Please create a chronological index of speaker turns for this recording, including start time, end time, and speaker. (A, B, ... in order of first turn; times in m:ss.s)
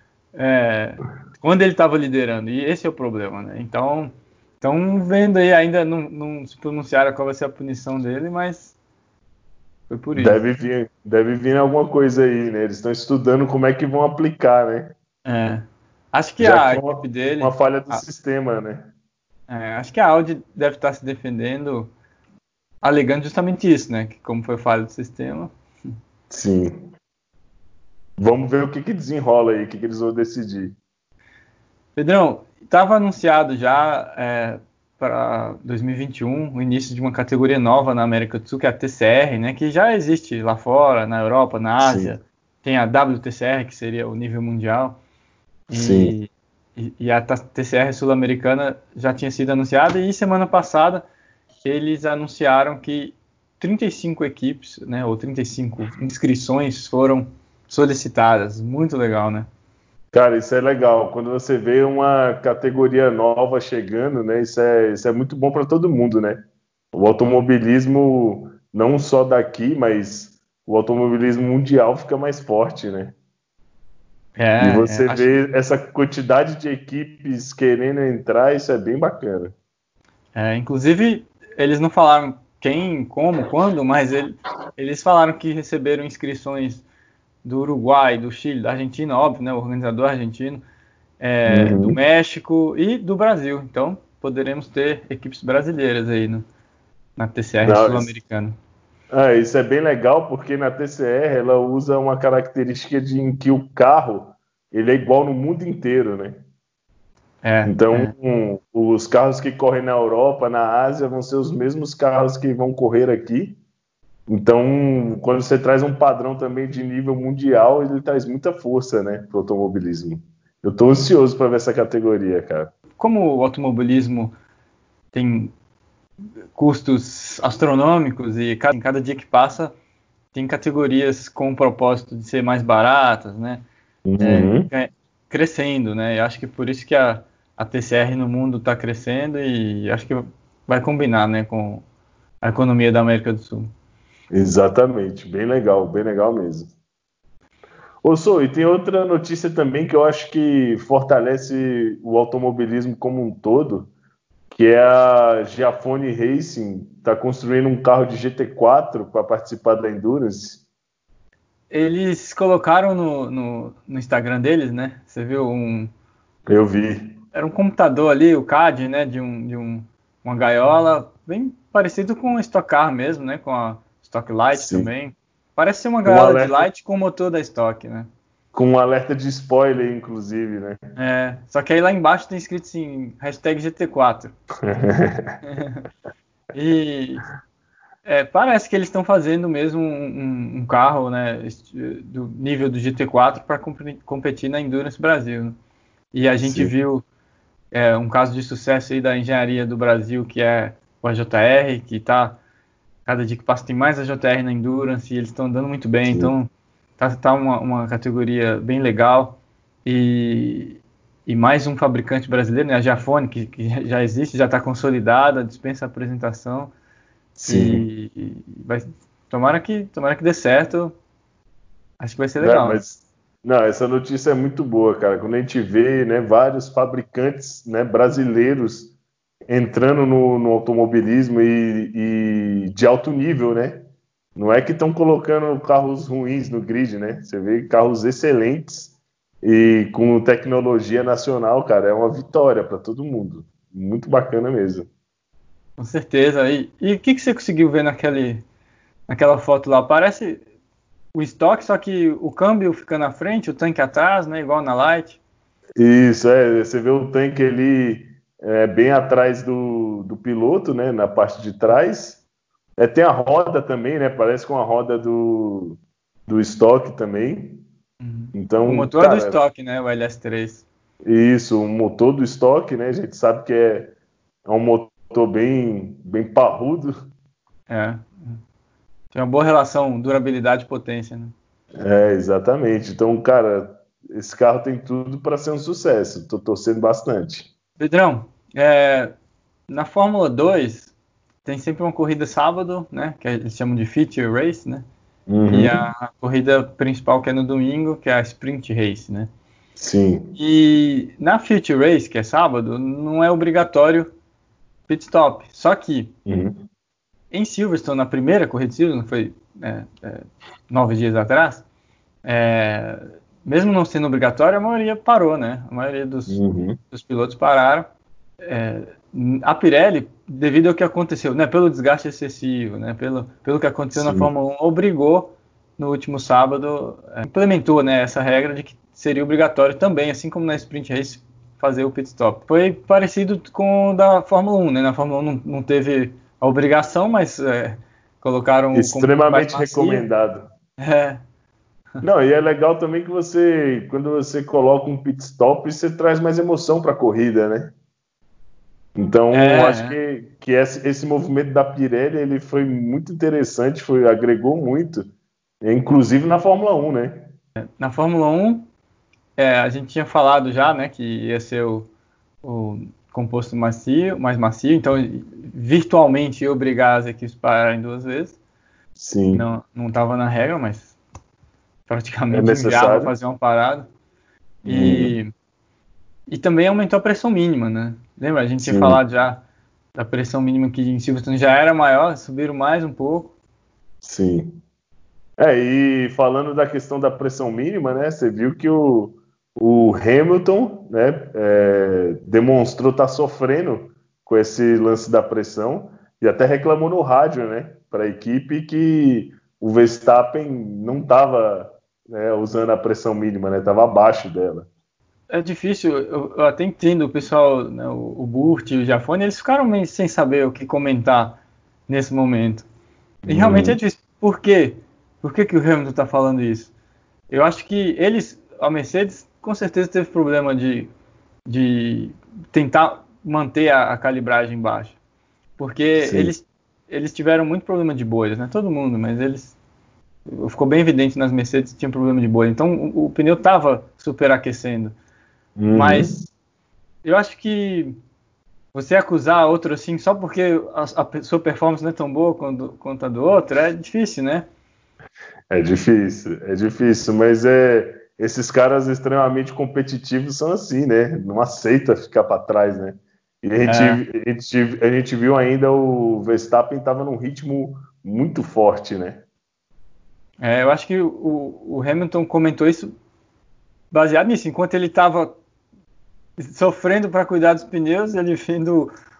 0:00.4-0:08.8 A
0:09.9-0:10.4 A
0:10.2-0:14.9 B
0:15.2-0:18.0 A
0:16.4-0:18.9 B
0:19.5-0:21.9 A
0:22.8-0:25.5 A
0:26.3-0:26.9 B
0:28.2-0:30.8 B
0:32.0-0:45.0 A
0:41.8-0:42.1 B
0:45.7-0:51.1 A
0:45.7-0:46.2 B
0:51.6-0:59.5 A
1:00.1-1:13.2 B
1:14.4-1:15.4 A
1:14.6-1:19.6 B
1:20.4-1:26.8 A
1:27.4-1:30.6 A
1:31.2-1:36.4 A
1:31.5-1:32.0 B
1:37.2-1:38.6 A
1:37.6-1:38.1 B
1:39.1-1:46.4 B
1:47.4-1:48.1 A
1:47.6-1:53.6 B
1:54.3-2:02.7 B
2:03.0-2:04.3 A
2:05.1-2:05.5 A
2:06.6-2:09.8 A
2:10.3-2:13.6 A
2:14.1-2:14.7 B
2:14.2-2:21.8 A
2:22.4-2:23.7 A
2:24.3-2:26.7 B
2:28.0-2:33.9 B
2:34.5-2:40.6 B
2:41.7-2:45.9 A
2:46.5-2:47.2 B
2:47.3-2:58.1 A
2:54.5-2:54.9 B
2:56.1-2:56.7 B
2:58.5-3:00.8 B
3:01.0-3:04.4 A
3:04.6-3:05.4 B
3:05.4-3:05.9 A
3:06.5-3:07.3 A
3:08.0-3:15.6 A
3:16.1-3:17.0 A
3:16.4-3:16.7 B
3:17.7-3:22.4 A
3:23.1-3:36.7 A
3:26.1-3:26.3 B
3:37.4-3:37.9 B
3:37.5-3:41.0 A
3:42.0-3:42.8 A
3:42.4-3:48.9 B
3:49.5-4:04.9 B
4:05.8-4:08.4 A
4:09.1-4:10.4 A
4:11.1-4:15.2 A
4:15.8-4:22.2 B
4:22.8-4:27.6 B
4:28.0-4:30.6 A
4:28.3-4:29.4 B
4:31.0-4:33.9 B
4:34.5-4:36.9 B
4:37.7-4:38.4 A
4:39.1-4:41.4 A
4:41.8-4:47.5 B
4:47.8-4:49.1 A
4:49.7-4:50.9 A
4:51.4-4:54.9 A
4:55.3-4:55.8 B
4:55.5-4:59.3 A
4:59.8-5:00.4 B
5:00.4-5:04.1 A
5:04.9-5:06.1 A
5:06.3-5:06.6 B
5:07.3-5:11.6 A
5:12.2-5:17.9 A
5:16.3-5:16.8 B
5:18.4-5:40.1 A
5:24.0-5:24.3 B
5:38.7-5:40.5 B
5:40.8-5:41.2 A
5:42.0-5:47.7 B
5:49.0-5:55.1 B
5:49.3-5:50.0 A
5:55.6-5:57.3 B
5:57.6-5:58.7 A
5:59.4-6:01.9 A
6:02.4-6:08.4 A
6:09.0-6:09.5 B
6:09.3-6:11.0 A
6:11.9-6:13.9 A
6:12.3-6:13.2 B
6:14.6-6:15.2 B
6:14.7-6:15.3 A
6:16.3-6:19.4 A
6:18.6-6:19.0 B
6:19.9-6:23.3 A
6:24.0-6:24.6 B
6:25.4-6:44.7 B
6:45.3-6:52.7 A
6:53.2-6:53.8 B
6:53.3-6:56.7 A
6:57.3-7:00.9 A
7:01.5-7:05.0 A
7:05.6-7:09.6 A
7:06.0-7:06.3 B
7:10.3-7:15.0 A
7:15.6-7:16.3 B
7:15.7-7:16.2 A
7:17.0-7:18.0 A
7:18.7-7:24.5 A
7:25.5-7:39.2 B
7:33.6-7:34.0 A
7:40.4-7:42.9 A
7:43.9-7:45.4 A
7:46.4-7:48.9 A